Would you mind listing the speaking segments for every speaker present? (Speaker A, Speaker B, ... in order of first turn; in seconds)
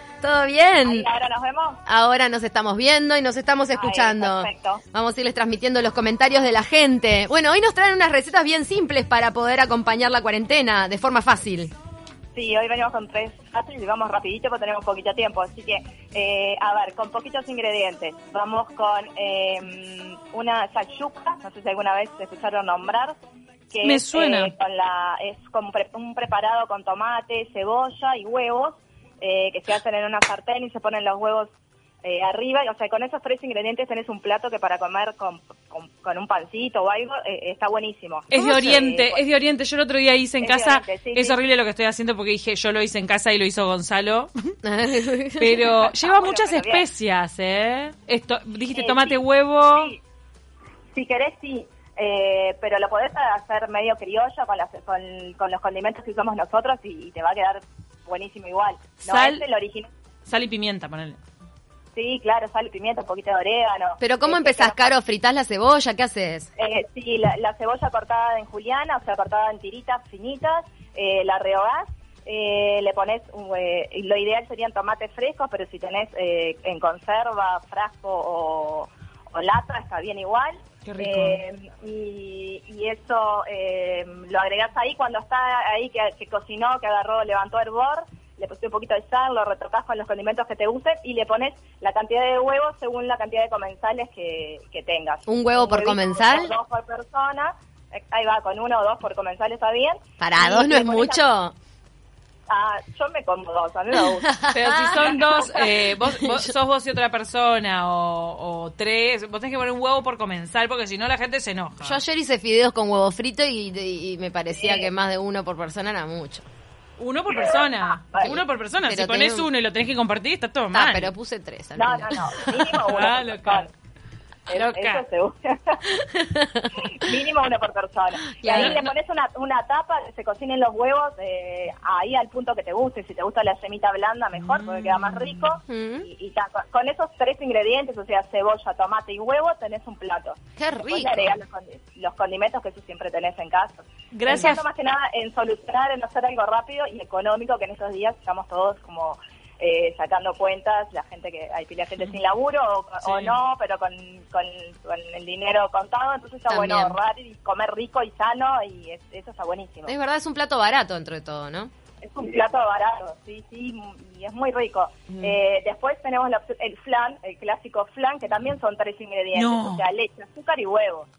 Speaker A: 0.2-1.1, 1.9-11.7, 44.6-45.7, 64.0-66.5, 95.3-96.5, 100.2-101.5, 104.2-105.2, 106.2-106.5, 111.8-116.5, 118.2-119.5, 120.7-122.8, 126.0-126.7, 128.4-128.8, 135.7-136.1, 140.6-141.4, 156.5-157.0, 159.9-161.7, 165.1-165.4
Speaker B: 0.8-1.8, 3.7-4.8, 12.3-23.1, 23.7-31.5, 32.0-39.2, 40.4-41.4, 45.8-46.9, 48.7-50.0, 50.9-59.9, 61.9-64.9, 66.6-101.2, 102.5-104.3, 114.6-114.9, 117.5-118.3, 121.8-123.7, 124.5-125.9, 126.9-159.9, 162.0-171.1
Speaker C: 23.8-24.5, 38.3-44.5, 45.4-50.0, 59.0-59.4, 60.3-61.2, 80.8-81.4, 104.5-112.0, 117.0-121.1, 122.8-123.7, 124.5-125.0, 128.6-128.9, 134.3-135.4, 144.1-144.6, 153.0-153.3, 169.3-169.8